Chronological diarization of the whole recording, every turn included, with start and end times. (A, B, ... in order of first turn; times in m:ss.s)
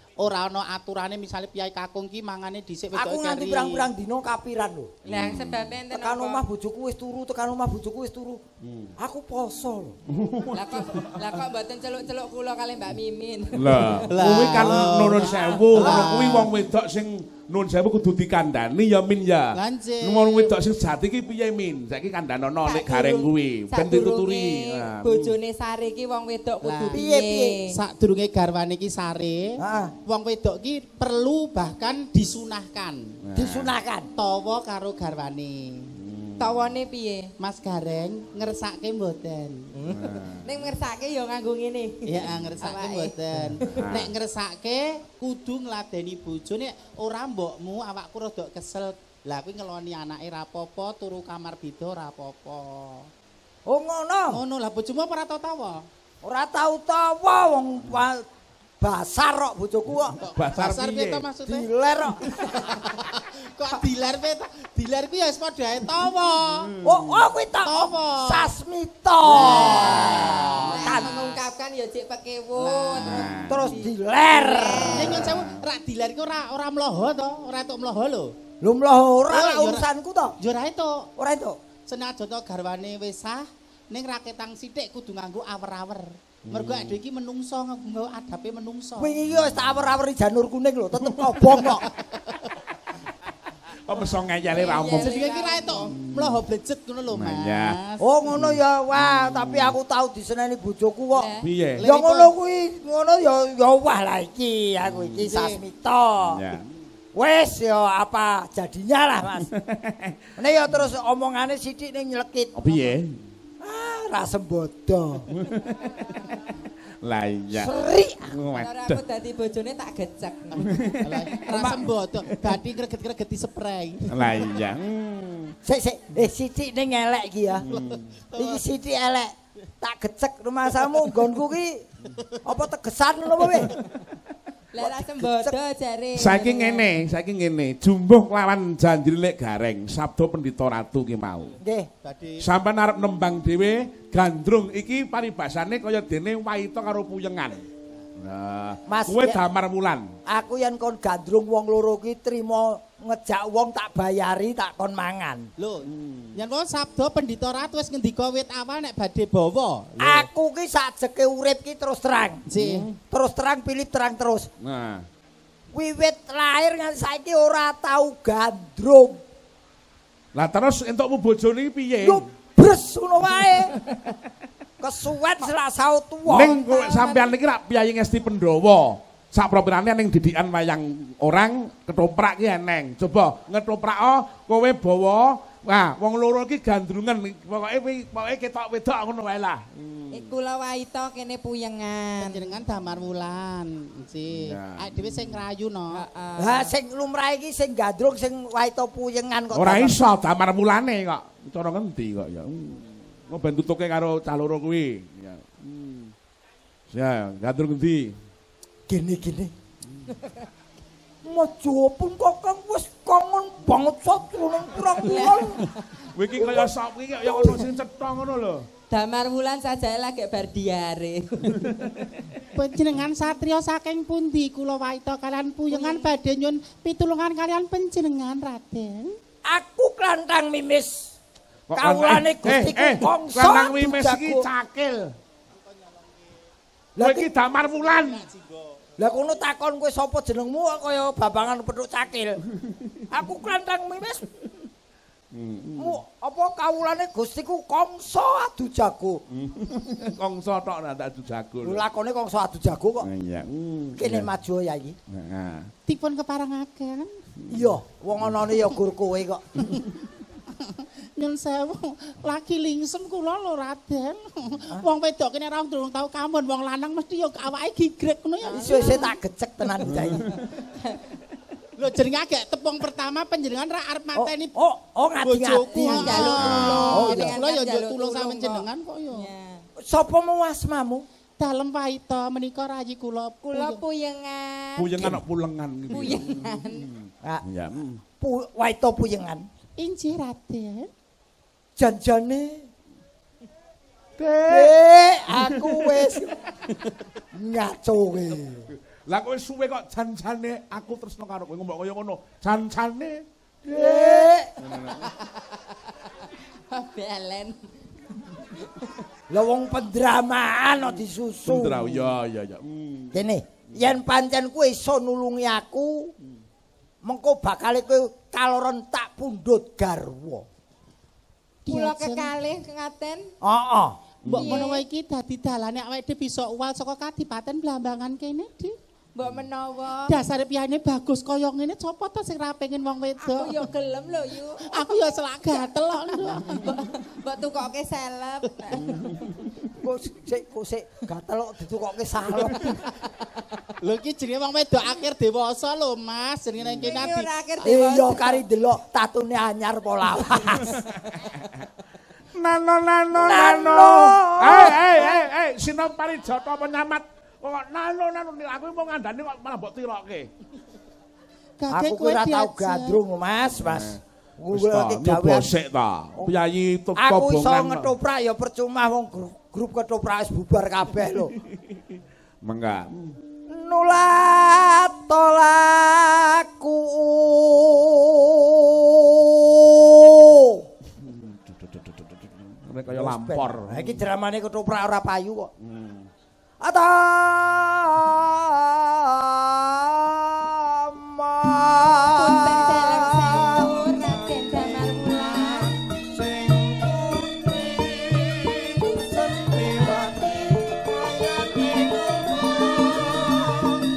0:00.2-0:03.9 A
0:02.9-0:04.9 B
0:05.0-0:06.4 C
0:05.1-0:05.8 D
0:05.9-0:08.4 B
0:08.6-0:08.9 D
0:09.0-0:10.0 B
0:10.1-0:11.4 D
0:10.5-0:14.2 C
0:13.5-0:25.4 D
0:14.1-0:16.5 A
0:15.1-0:16.1 C
0:19.5-0:20.5 A
0:22.6-0:27.8 C
0:26.6-0:27.0 A
0:26.9-0:27.6 B
0:27.7-0:33.2 A
0:29.6-0:29.9 B
0:33.2-0:33.8 D
0:33.4-0:34.1 B
0:34.2-0:35.9 A
0:35.9-0:36.6 D
0:36.4-0:37.3 C
0:37.4-0:40.0 A
0:39.8-0:40.7 D
0:40.3-0:43.9 C
0:42.0-0:53.1 A
0:43.7-0:44.2 D
0:53.7-0:54.4 B
0:54.3-0:55.9 A
0:56.2-0:58.3 B
0:58.8-1:00.2 B
1:00.2-1:01.7 A
1:00.2-1:01.3 D
1:01.4-1:02.3 B
1:02.4-1:02.9 C
1:02.6-1:06.7 A
1:06.8-1:07.2 D
1:06.8-1:11.4 B
1:07.6-1:08.6 A
1:09.2-1:11.3 A
1:09.5-1:15.4 C
1:12.6-1:13.3 A
1:13.0-1:13.8 D
1:13.3-1:15.2 B
1:14.9-1:18.4 A
1:15.1-1:15.6 D
1:18.6-1:20.4 B
1:19.3-1:21.1 A
1:21.2-1:21.6 B
1:21.9-1:29.2 A
1:26.5-1:27.0 D
1:29.0-1:31.9 B
1:29.2-1:30.0 D
1:31.4-1:32.5 A
1:33.9-1:35.2 D
1:34.5-1:35.9 C
1:35.0-1:38.2 A
1:36.0-1:36.4 D
1:37.1-1:37.8 D
1:38.0-1:46.4 B
1:38.3-1:39.8 D
1:41.1-1:41.5 C
1:41.4-1:41.9 D
1:41.8-1:42.4 A
1:44.8-1:45.4 D
1:45.3-1:45.6 A
1:46.3-1:46.7 D
1:47.1-1:49.5 B
1:49.5-1:50.2 D
1:50.4-1:53.0 B
1:52.6-1:53.2 D
1:53.6-1:55.3 B
1:55.3-1:56.1 D
1:57.0-1:59.0 D
1:57.5-1:58.3 B
1:58.6-2:00.6 C
2:00.6-2:04.5 A
2:00.6-2:01.5 D
2:01.5-2:01.9 B
2:04.1-2:05.6 D
2:05.6-2:07.7 B
2:07.6-2:08.1 D
2:07.7-2:08.6 A
2:08.3-2:11.9 B
2:12.4-2:13.8 B
2:14.7-2:16.9 C
2:14.8-2:15.6 B
2:16.2-2:21.6 D
2:21.6-2:21.9 B
2:22.0-2:22.5 A
2:22.4-2:27.7 D
2:28.2-2:30.1 D
2:28.9-2:29.4 B
2:30.3-2:35.5 B
2:35.6-2:40.3 A
2:35.8-2:36.4 D
2:40.0-2:42.4 B
2:42.5-2:42.9 A
2:42.6-2:42.9 D
2:43.0-2:44.5 B
2:44.6-2:45.1 D
2:45.7-2:49.2 B
2:50.3-2:52.2 D
2:52.0-2:53.8 B
2:54.8-2:56.6 B
2:56.3-3:10.4 D
2:56.6-2:57.3 C
3:10.1-3:12.4 C
3:12.2-3:16.0 A
3:14.3-3:15.4 D
3:15.9-3:16.7 C
3:16.4-3:20.0 B
3:19.5-3:26.1 D
3:26.9-3:28.2 D
3:28.9-3:29.5 B
3:31.2-3:35.6 B
3:35.0-3:35.6 C
3:36.0-3:38.7 D
3:36.4-3:37.7 B
3:38.9-3:41.8 C
3:41.5-3:42.2 D
3:42.5-3:49.2 A
3:45.7-3:46.1 C
3:49.4-3:51.2 B
3:51.7-3:55.2 D
3:51.7-3:54.5 B
3:57.0-3:57.4 B
3:57.0-3:58.3 D
3:57.6-3:58.6 A
3:59.0-4:02.4 B
4:02.6-4:03.0 D
4:03.1-4:04.3 B
4:05.3-4:06.0 D
4:05.8-4:09.2 B
4:09.3-4:11.8 D
4:11.6-4:13.1 B
4:13.0-4:14.3 D
4:14.0-4:15.0 B
4:15.1-4:15.7 D
4:15.9-4:17.1 A
4:17.5-4:18.5 D
4:17.5-4:19.4 B
4:19.6-4:19.9 A
4:20.5-4:29.2 A
4:28.5-4:30.4 B
4:29.8-4:30.4 D
4:30.6-4:31.1 C
4:31.8-4:34.6 A
4:34.2-4:36.2 B
4:35.2-4:39.3 A
4:35.6-4:39.6 C
4:36.2-4:36.9 D
4:36.8-4:37.4 B
4:39.8-4:41.0 B
4:41.4-4:43.8 A
4:43.5-4:45.1 C
4:44.8-4:48.0 D
4:45.9-4:46.9 C
4:48.2-4:49.4 B
4:49.8-4:50.9 A
4:51.8-4:52.7 B
4:54.2-4:54.8 D
4:54.5-4:56.4 B
4:55.3-4:55.9 D
4:57.3-4:58.7 B
4:58.9-5:03.2 D
5:03.6-5:04.6 B
5:04.6-5:05.1 D
5:06.7-5:07.6 C
5:08.4-5:09.0 C
5:09.3-5:12.2 B
5:11.4-5:13.2 D
5:13.1-5:16.1 B
5:13.8-5:14.0 D
5:17.0-5:20.4 B
5:21.7-5:22.3 A
5:21.7-5:23.3 C
5:23.4-5:24.0 B
5:24.2-5:24.6 D
5:24.2-5:28.8 A
5:24.3-5:24.8 C
5:29.1-5:30.2 C
5:30.1-5:33.7 A
5:33.2-5:35.0 C
5:34.6-5:36.8 A
5:36.3-5:39.0 C
5:38.9-5:39.7 D
5:39.7-5:42.9 B
5:42.4-5:43.1 A
5:43.8-5:47.3 A
5:46.6-5:46.9 D
5:46.8-5:48.4 C
5:47.6-5:50.8 B
5:50.6-5:51.2 D
5:52.3-6:00.3 D
5:53.1-5:55.1 B
6:01.6-6:03.0 A
6:01.7-6:05.6 B
6:03.4-6:07.9 D
6:07.0-6:11.3 B
6:12.4-6:13.1 D
6:13.5-6:20.6 B
6:21.0-6:24.0 D
6:22.9-6:25.5 B
6:25.6-6:26.1 D
6:26.6-6:33.7 B
6:32.1-6:35.8 C
6:34.2-6:43.7 B
6:38.9-6:39.9 D